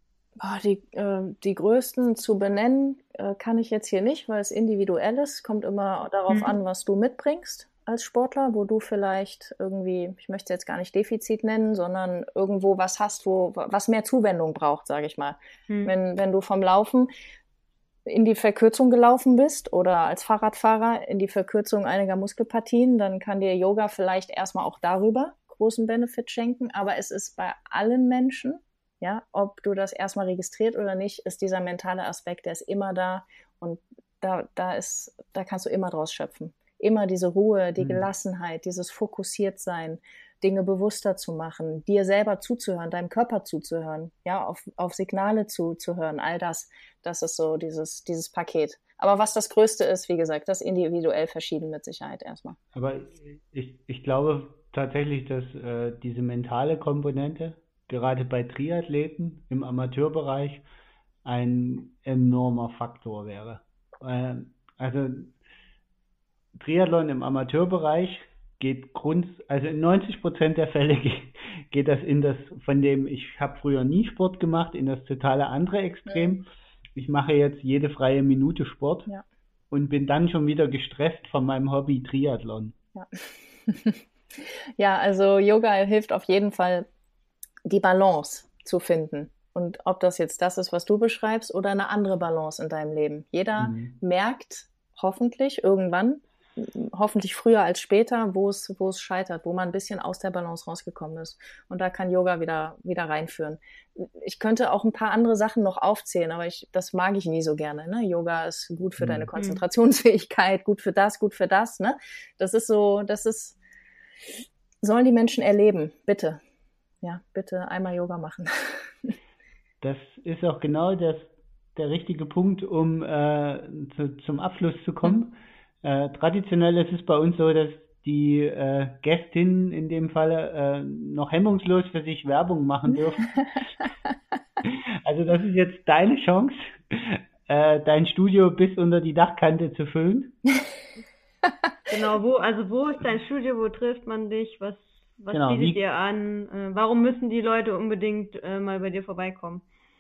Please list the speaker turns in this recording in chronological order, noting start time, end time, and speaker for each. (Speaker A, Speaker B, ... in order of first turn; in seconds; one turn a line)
Speaker A: 0.4-17.1
Speaker B: 6.3-6.5
Speaker A: 18.1-52.6
Speaker C: 37.8-38.1
Speaker C: 52.7-60.6
Speaker C: 61.2-65.3
Speaker C: 66.5-79.1
Speaker A: 76.1-76.4
Speaker C: 79.7-82.8
Speaker A: 83.0-86.9
Speaker A: 87.7-113.6
Speaker C: 93.6-93.9
Speaker C: 109.0-109.3
Speaker B: 109.4-109.6
Speaker A: 114.8-116.4
Speaker A: 117.0-119.1
Speaker C: 119.8-133.7
Speaker C: 134.6-140.5
Speaker B: 141.9-149.6
Speaker C: 145.3-145.8